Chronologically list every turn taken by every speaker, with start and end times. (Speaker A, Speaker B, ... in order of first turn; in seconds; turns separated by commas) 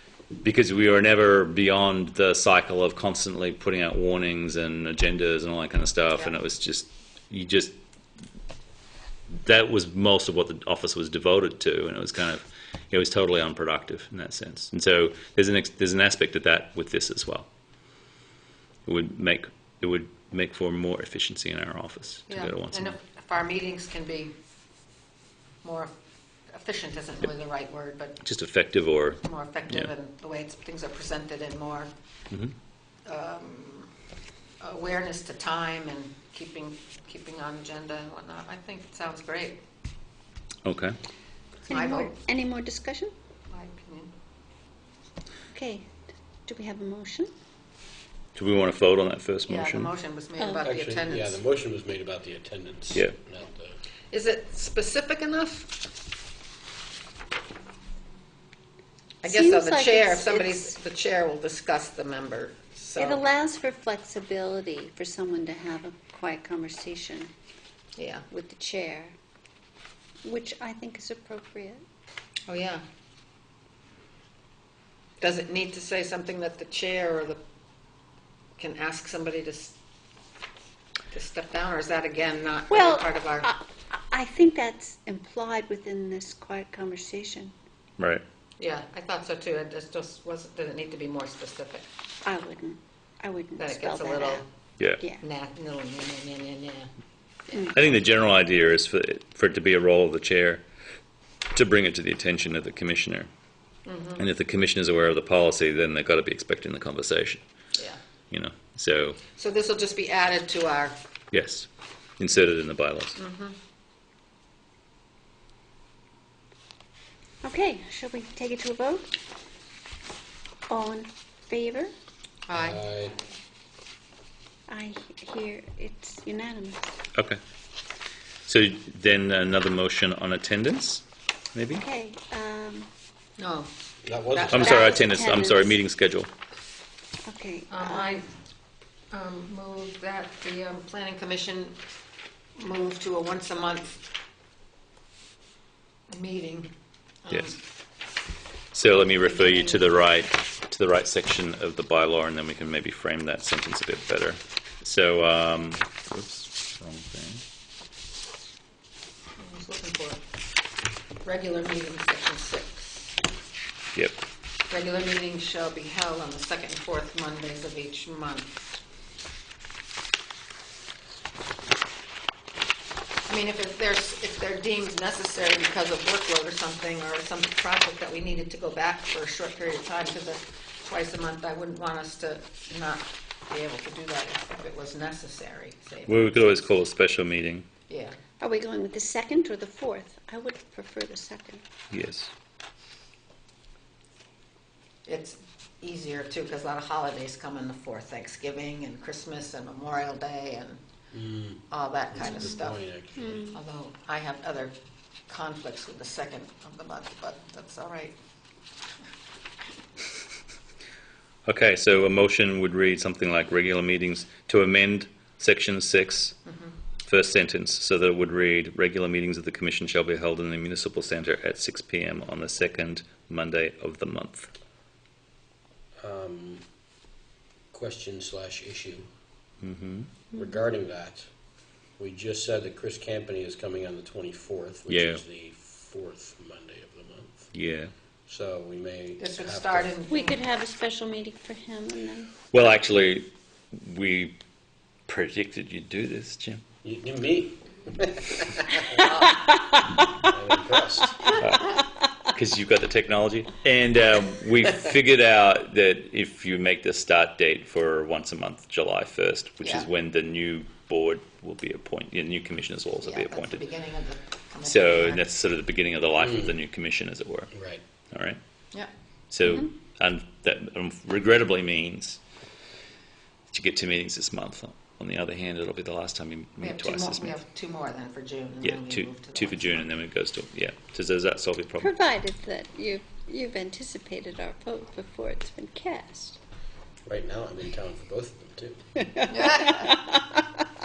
Speaker A: 0.4-7.8, Speaker A: 9.4-17.5, Speaker A: 18.9-23.0, Speaker B: 22.3-24.3, Speaker B: 25.6-25.9, Speaker B: 26.5-28.2, Speaker A: 28.2-29.9, Speaker B: 29.2-31.9, Speaker B: 33.0-33.9, Speaker B: 34.6-39.6, Speaker A: 40.6-41.0, Speaker B: 41.7-42.1, Speaker C: 41.7-43.1, Speaker B: 43.5-44.1, Speaker C: 45.5-45.9, Speaker C: 46.5-47.3, Speaker A: 48.4-49.9, Speaker B: 49.5-51.4, Speaker C: 50.4-50.7, Speaker D: 50.6-53.8, Speaker B: 54.1-55.7, Speaker C: 59.2-60.8, Speaker B: 59.2-63.2, Speaker C: 63.0-67.3, Speaker B: 68.0-68.2, Speaker C: 68.3-69.2, Speaker C: 70.2-71.8, Speaker B: 72.5-72.8, Speaker B: 75.2-77.4, Speaker B: 78.6-79.8, Speaker B: 81.1-83.5, Speaker C: 82.7-87.5, Speaker A: 88.0-88.2, Speaker B: 88.6-91.9, Speaker C: 92.2-94.5, Speaker B: 93.6-94.5, Speaker C: 95.0-95.2, Speaker B: 95.2-96.9, Speaker C: 97.5-97.8, Speaker A: 97.7-100.6, Speaker A: 101.5-103.3, Speaker B: 103.9-104.2, Speaker A: 104.2-107.4, Speaker A: 108.3-109.2, Speaker B: 109.4-111.0, Speaker A: 111.3-113.2, Speaker B: 113.2-113.6, Speaker C: 117.4-119.1, Speaker C: 120.7-121.9, Speaker B: 122.5-122.8, Speaker D: 122.5-123.2, Speaker C: 124.7-126.9, Speaker A: 127.1-127.4, Speaker A: 128.5-131.8, Speaker C: 131.8-132.9, Speaker B: 133.4-133.7, Speaker D: 134.0-134.7, Speaker B: 134.3-135.0, Speaker A: 134.5-136.3, Speaker C: 134.6-135.8, Speaker C: 137.3-138.2, Speaker B: 137.7-138.3, Speaker B: 139.1-141.8, Speaker B: 142.6-143.9, Speaker B: 146.1-146.7, Speaker B: 147.2-147.6, Speaker A: 147.3-147.6, Speaker A: 148.7-157.4, Speaker B: 149.0-149.9, Speaker B: 159.4-160.2, Speaker B: 161.2-163.2, Speaker A: 163.9-164.2, Speaker B: 164.7-168.5, Speaker B: 173.3-186.6, Speaker A: 186.1-187.7, Speaker B: 187.9-188.2, Speaker C: 188.4-191.6, Speaker A: 191.9-192.3, Speaker B: 195.1-200.8, Speaker D: 201.1-203.4, Speaker B: 201.7-202.8, Speaker C: 202.2-202.5, Speaker C: 203.2-203.6, Speaker B: 203.5-204.8, Speaker B: 205.3-208.2, Speaker A: 211.5-216.4, Speaker B: 216.5-216.8, Speaker A: 217.1-224.5, Speaker D: 226.0-226.7, Speaker D: 227.7-229.1, Speaker A: 229.6-230.1, Speaker C: 230.3-230.6, Speaker D: 230.3-231.3, Speaker D: 232.0-237.6, Speaker A: 234.9-235.2, Speaker A: 237.5-237.9, Speaker D: 238.3-239.9, Speaker B: 239.2-240.4, Speaker C: 240.1-242.3, Speaker A: 242.5-244.4, Speaker A: 245.1-246.6, Speaker D: 246.8-249.1, Speaker C: 248.8-250.2, Speaker D: 250.2-251.4, Speaker A: 251.4-263.6, Speaker B: 259.6-259.9, Speaker B: 263.0-265.2, Speaker A: 264.6-267.5, Speaker D: 266.2-266.5, Speaker D: 267.5-267.8, Speaker A: 268.1-268.4, Speaker A: 269.3-272.2, Speaker A: 273.5-277.4, Speaker B: 276.6-279.9, Speaker A: 278.6-281.9, Speaker C: 281.8-286.4, Speaker D: 287.1-288.8, Speaker C: 289.0-290.6, Speaker B: 289.3-290.0